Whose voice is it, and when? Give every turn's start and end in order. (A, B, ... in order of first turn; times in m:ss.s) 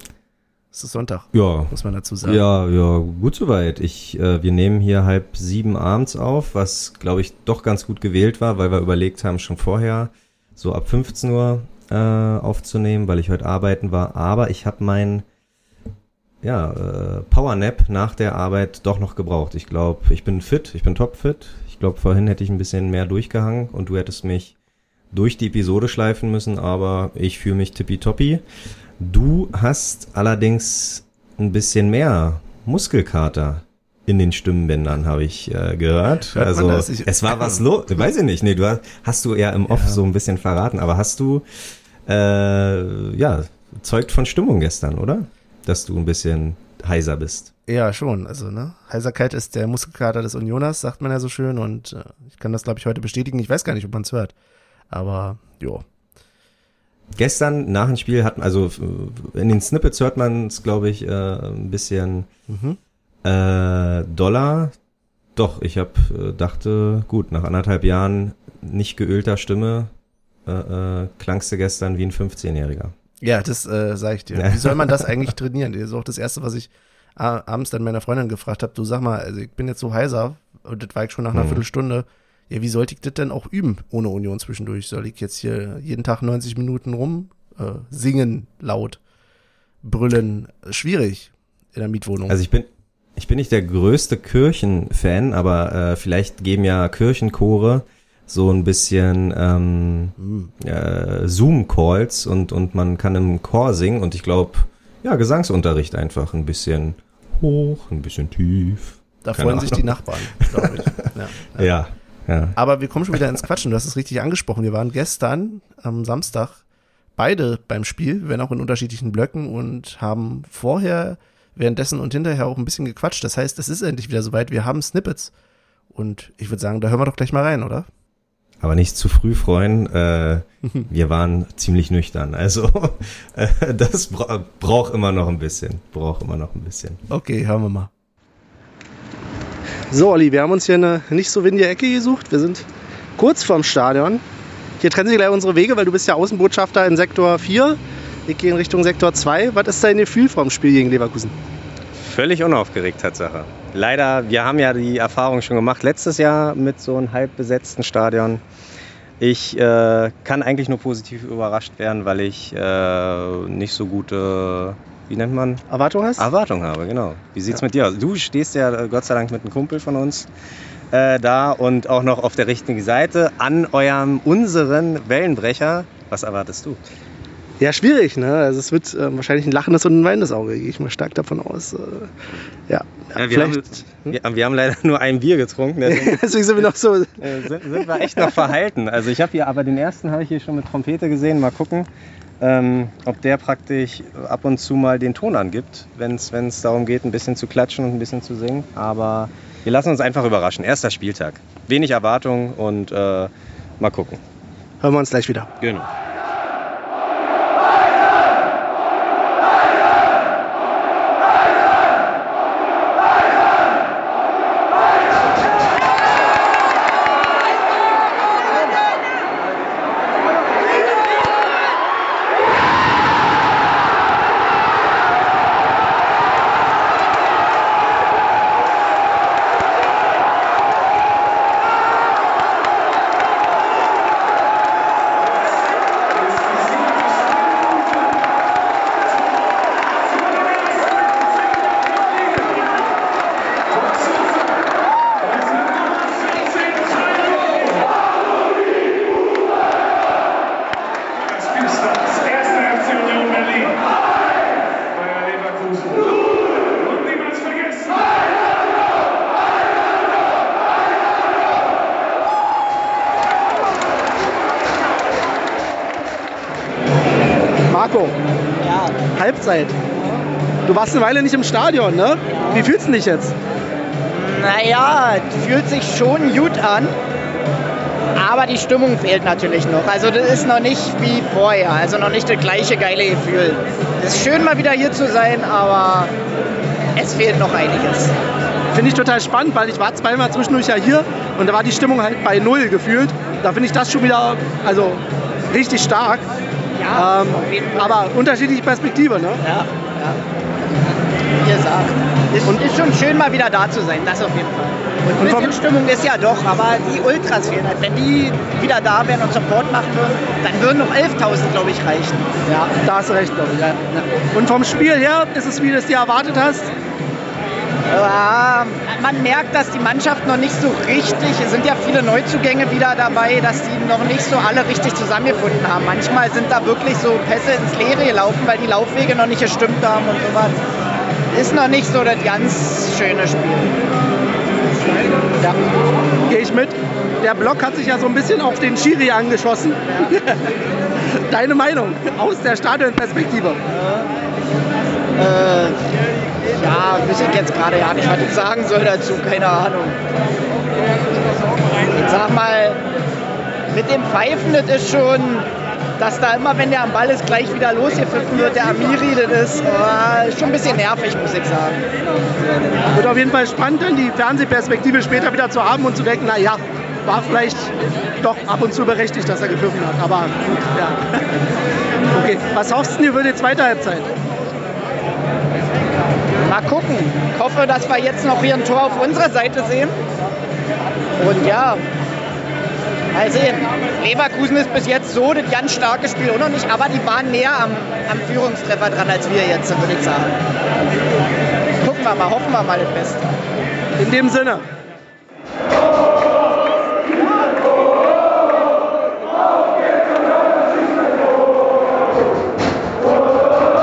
0:00.7-0:02.4 A
0:01.3-0:15.3 B
0:16.4-0:24.6 B
0:25.1-0:28.4 B
0:29.0-0:41.5 B
0:36.3-0:37.6 A
0:39.7-0:40.0 A
0:42.1-0:47.5 B
0:47.7-0:54.3 A
0:54.9-0:55.8 A
0:57.2-1:02.3 B
1:02.5-1:02.8 A
1:03.2-1:04.7 B
1:05.4-1:09.9 B
1:10.5-1:12.9 B
1:13.2-1:29.0 A
1:14.4-1:15.1 B
1:21.3-1:21.6 B
1:29.8-1:32.4 A
1:32.3-1:50.8 B
1:40.2-1:40.5 A
1:49.2-1:51.7 A
1:51.6-1:52.6 B
1:52.6-1:56.6 A
1:57.2-2:05.3 A
2:05.9-2:07.9 A
2:08.6-2:17.0 B
2:17.1-2:17.9 A
2:19.9-2:22.7 A
2:23.2-2:24.2 A
2:24.8-2:31.4 A
2:32.0-2:38.4 B
2:39.2-2:45.6 B
2:45.7-2:46.3 A
2:46.2-2:50.3 B
2:50.9-2:56.8 B
2:57.6-3:02.1 A
3:02.7-3:04.1 A
3:03.1-3:06.6 B
3:05.8-3:08.4 A
3:07.2-3:11.9 B
3:12.4-3:24.2 B
3:24.8-3:25.5 A
3:25.6-3:25.9 B
4:27.7-4:28.2 A
4:28.7-4:28.9 C
4:29.1-4:29.8 A
4:30.7-4:33.4 A
4:32.3-4:32.6 C
4:34.1-4:36.9 C
4:38.2-4:46.1 C
4:47.0-4:48.1 C
4:48.7-4:56.3 A
4:56.8-4:57.7 C
4:56.9-4:59.4 A
4:59.4-5:00.2 C
5:01.4-5:12.4 C
5:05.0-5:05.6 A
5:12.5-5:16.7 A
5:17.9-5:30.6 C
5:31.3-5:33.8 C
5:35.4-5:35.8 C
5:36.3-5:40.5 A
5:41.1-5:43.6 A
5:45.2-5:45.8 C
5:46.5-5:50.0 C
5:51.8-5:52.8 C
5:53.7-5:55.5 C
5:56.0-6:01.8 C
6:02.9-6:11.2 A
6:12.1-6:14.1 A
6:16.4-6:20.0 C
6:21.2-6:21.8 C
6:23.1-6:30.4 C
6:31.8-6:33.4 C
6:34.0-6:34.7 A